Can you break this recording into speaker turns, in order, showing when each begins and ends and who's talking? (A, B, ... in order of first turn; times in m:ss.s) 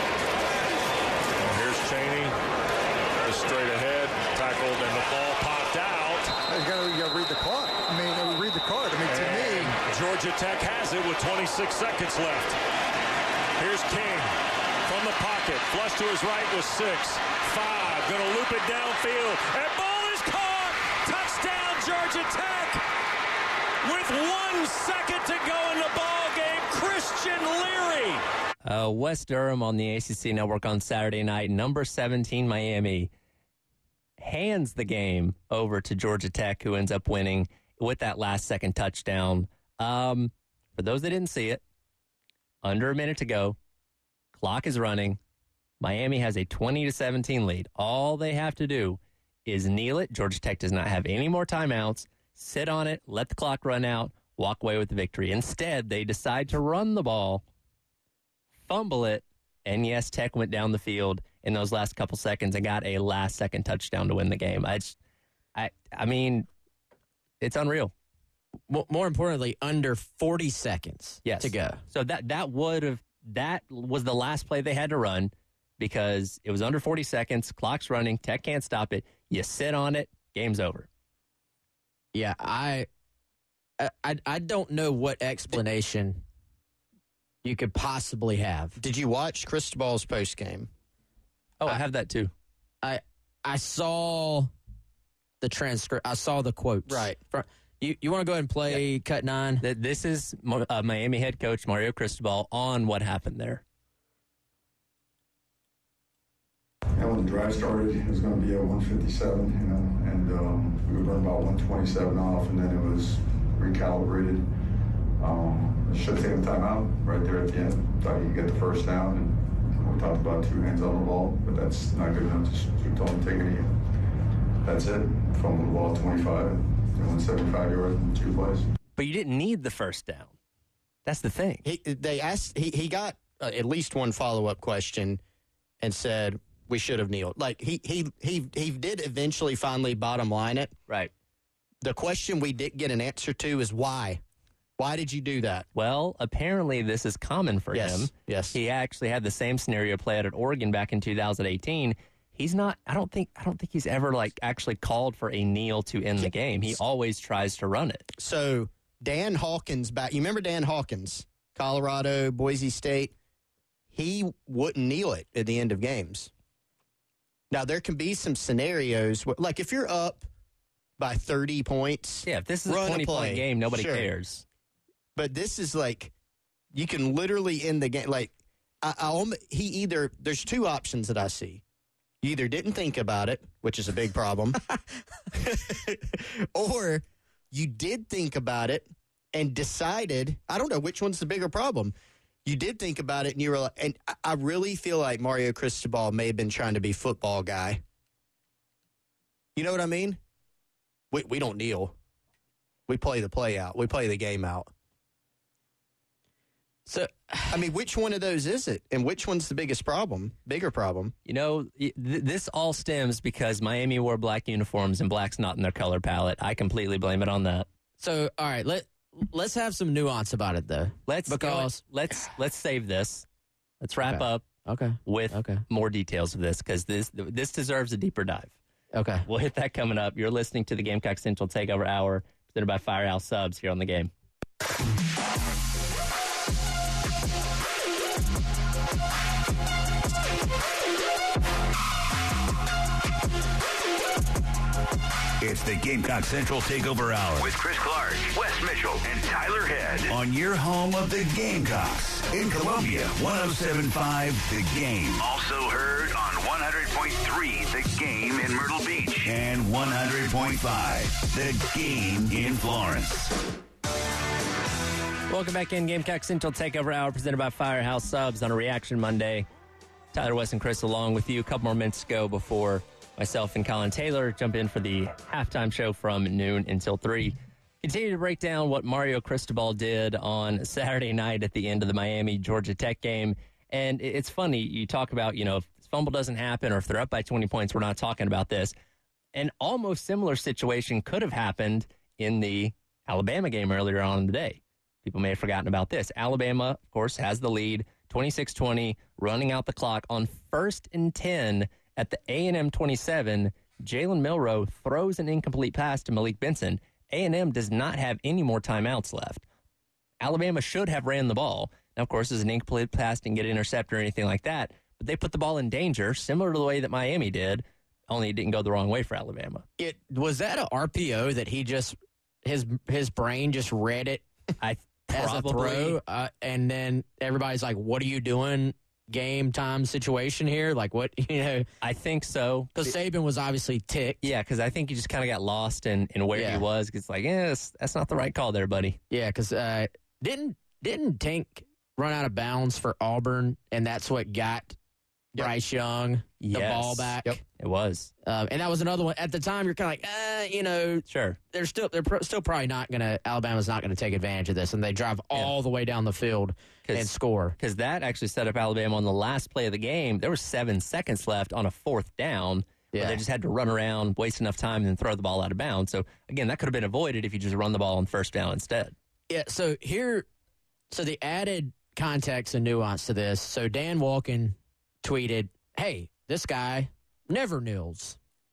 0:01.4-0:02.4 A
0:03.2-0:06.3 A
0:06.5-0:09.8 B
0:09.1-0:12.6 A
0:13.6-0:14.3 A
0:14.9-0:22.8 A
0:23.8-0:28.2 A
0:28.6-0:33.1 C
0:34.2-0:41.6 C
0:42.6-0:43.6 C
0:44.4-0:45.2 C
0:45.8-0:57.4 C
0:58.6-1:05.0 C
1:05.6-1:06.5 C
1:07.4-1:07.9 C
1:08.7-1:11.8 D
1:11.2-1:20.9 C
1:22.1-1:22.9 D
1:23.8-1:26.2 D
1:27.4-1:28.8 D
1:28.8-1:30.7 E
1:31.6-1:32.3 C
1:32.8-1:34.5 D
1:35.4-1:39.6 D
1:36.9-1:37.2 E
1:39.6-1:43.6 C
1:47.0-1:54.4 F
1:55.2-2:03.8 F
2:04.6-2:08.7 F
2:09.0-2:10.4 C
2:11.1-2:11.6 C
2:11.6-2:15.2 E
2:15.8-2:20.7 E
2:21.8-2:24.2 E
2:24.8-2:25.7 E
2:25.8-2:38.1 C
2:27.7-2:28.6 E
2:36.2-2:36.8 E
2:38.2-2:43.1 E
2:43.9-2:46.3 E
2:47.5-2:50.3 E
2:51.0-2:54.1 E
2:52.3-2:54.4 C
2:55.2-2:56.1 E
2:56.7-3:01.6 E
3:02.2-3:04.6 E
3:05.3-3:11.9 E
3:12.4-3:17.8 E
3:19.6-3:20.2 E
3:21.1-3:21.9 E
3:22.9-3:24.7 E
3:26.9-3:27.7 D
3:27.5-3:31.1 E
3:31.3-3:37.7 C
3:38.0-3:41.8 D
3:41.1-3:43.3 C
3:43.8-3:44.4 C
3:44.0-3:45.6 D
3:45.1-3:48.6 C
3:48.9-3:49.3 D
3:49.3-3:54.1 C
4:05.4-4:23.3 G
4:25.3-4:29.5 C
4:30.1-4:48.7 C
4:49.4-5:09.4 C
5:10.2-5:19.6 C
5:19.8-5:24.2 D
5:24.6-5:26.0 C
5:25.1-5:31.7 D
5:31.8-5:32.9 C
5:32.8-5:34.3 D
5:34.2-5:39.0 C
5:36.3-5:36.6 D
5:39.1-5:44.8 D
5:45.3-5:47.4 D
5:46.4-5:48.1 C
5:48.3-5:57.6 D
5:51.1-5:51.4 C
5:56.9-6:09.0 C
6:02.9-6:03.2 D
6:09.3-6:10.3 D
6:10.9-6:18.2 D